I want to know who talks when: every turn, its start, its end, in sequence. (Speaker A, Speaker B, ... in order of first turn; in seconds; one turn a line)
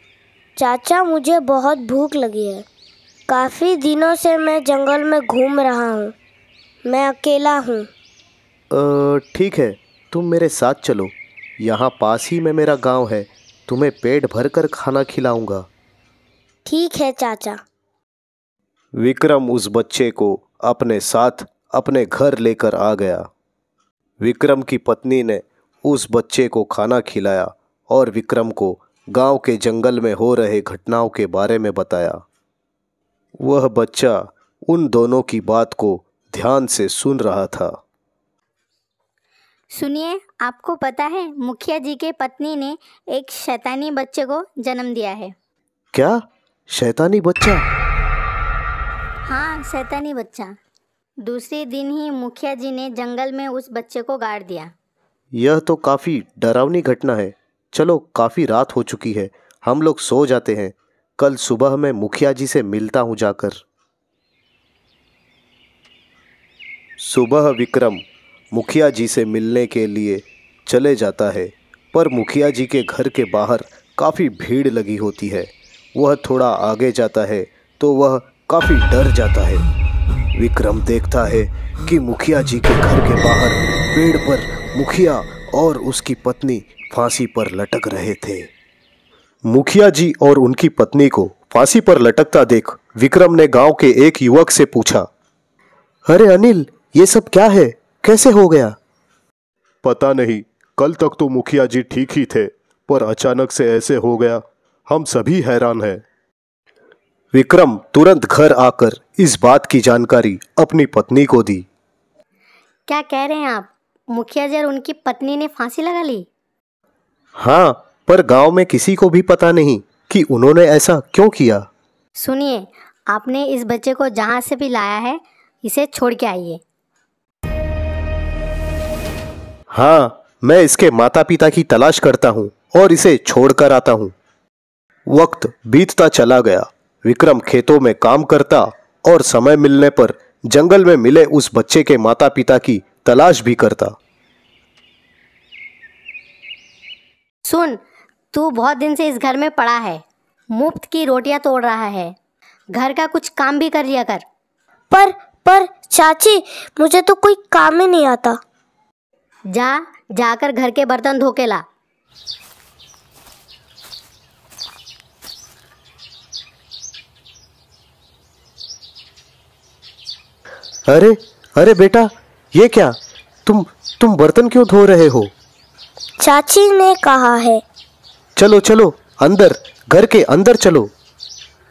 Speaker A: 0.6-2.6
Speaker A: 3.3-6.1
Speaker A: 6.8-7.9
Speaker B: 8.7-15.7
Speaker A: 16.6-17.6
Speaker B: 19.0-23.3
Speaker B: 24.2-32.2
Speaker B: 33.4-37.7
Speaker C: 39.7-45.3
Speaker B: 45.9-47.6
Speaker C: 49.3-50.5
Speaker C: 51.2-54.7
Speaker B: 55.4-63.6
Speaker B: 67.0-79.7
Speaker B: 80.3-88.5
Speaker B: 89.4-95.1
Speaker B: 96.1-98.8
Speaker B: 99.8-106.0
Speaker B: 107.3-111.7
Speaker C: 112.9-116.2
Speaker B: 117.4-121.7
Speaker C: 122.2-126.6
Speaker B: 129.7-134.1
Speaker B: 135.1-143.9
Speaker C: 147.4-147.8
Speaker C: 148.3-152.1
Speaker C: 152.7-154.2
Speaker A: 154.9-158.4
Speaker C: 159.5-161.6
Speaker B: 170.9-175.3
Speaker A: 176.2-177.6
Speaker B: 178.4-180.9